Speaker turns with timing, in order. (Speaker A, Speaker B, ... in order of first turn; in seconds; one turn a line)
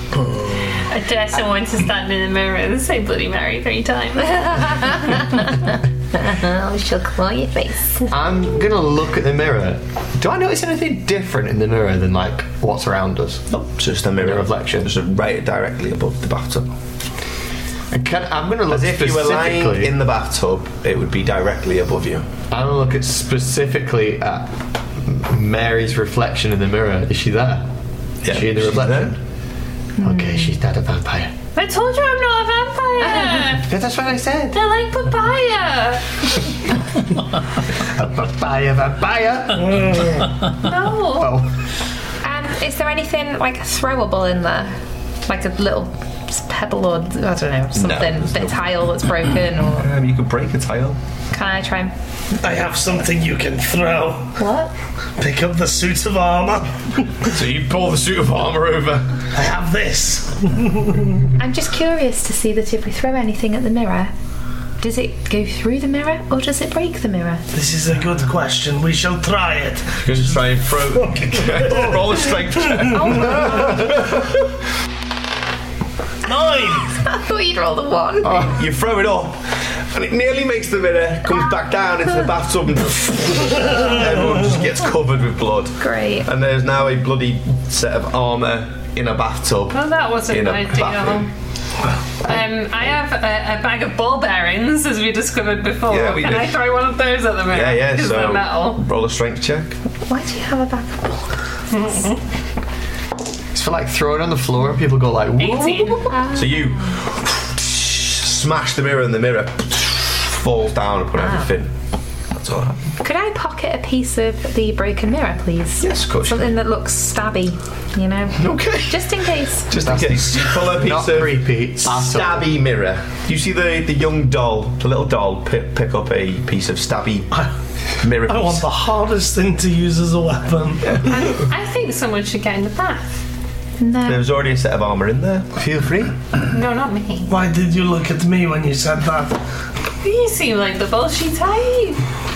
Speaker A: 0.9-5.0
Speaker B: 4.3-8.1
Speaker C: 8.1-13.5
Speaker D: 13.5-16.7
Speaker C: 14.2-14.9
Speaker C: 17.9-20.0
Speaker D: 18.7-22.3
Speaker C: 22.5-27.7
Speaker D: 28.2-29.1
Speaker C: 28.2-29.2
Speaker B: 30.0-30.6
Speaker C: 30.0-31.3
Speaker A: 31.6-33.7
Speaker C: 33.6-34.6
Speaker A: 34.5-36.5
Speaker C: 37.8-40.3
Speaker E: 39.6-40.2
Speaker A: 40.6-41.4
Speaker C: 41.1-41.5
Speaker B: 42.2-44.8
Speaker B: 45.3-49.9
Speaker D: 47.8-51.0
Speaker B: 51.3-51.9
Speaker E: 52.4-54.4
Speaker B: 54.4-54.7
Speaker E: 55.2-57.1
Speaker D: 57.2-59.3
Speaker E: 59.3-61.2
Speaker B: 61.4-64.1
Speaker B: 64.8-67.4
Speaker E: 67.5-73.6
Speaker D: 70.0-74.4
Speaker E: 76.3-76.9
Speaker B: 76.9-78.5
Speaker D: 78.2-91.3
Speaker B: 85.8-86.3
Speaker A: 89.7-91.3
Speaker A: 92.2-98.8
Speaker D: 95.9-96.7
Speaker D: 97.5-99.8
Speaker B: 100.0-101.3
Speaker A: 101.7-102.2
Speaker C: 103.5-106.0
Speaker A: 105.4-106.1
Speaker B: 106.1-106.7
Speaker D: 106.3-111.7
Speaker B: 111.2-111.5
Speaker D: 112.3-112.8
Speaker B: 113.0-119.7
Speaker D: 115.8-116.5
Speaker D: 118.4-127.4
Speaker C: 119.7-122.5
Speaker D: 128.0-128.7
Speaker E: 128.2-131.3
Speaker A: 131.1-133.2
Speaker B: 133.8-134.3
Speaker D: 134.1-135.5
Speaker C: 135.6-136.2
Speaker A: 136.5-137.3
Speaker E: 137.3-139.4
Speaker A: 140.0-142.0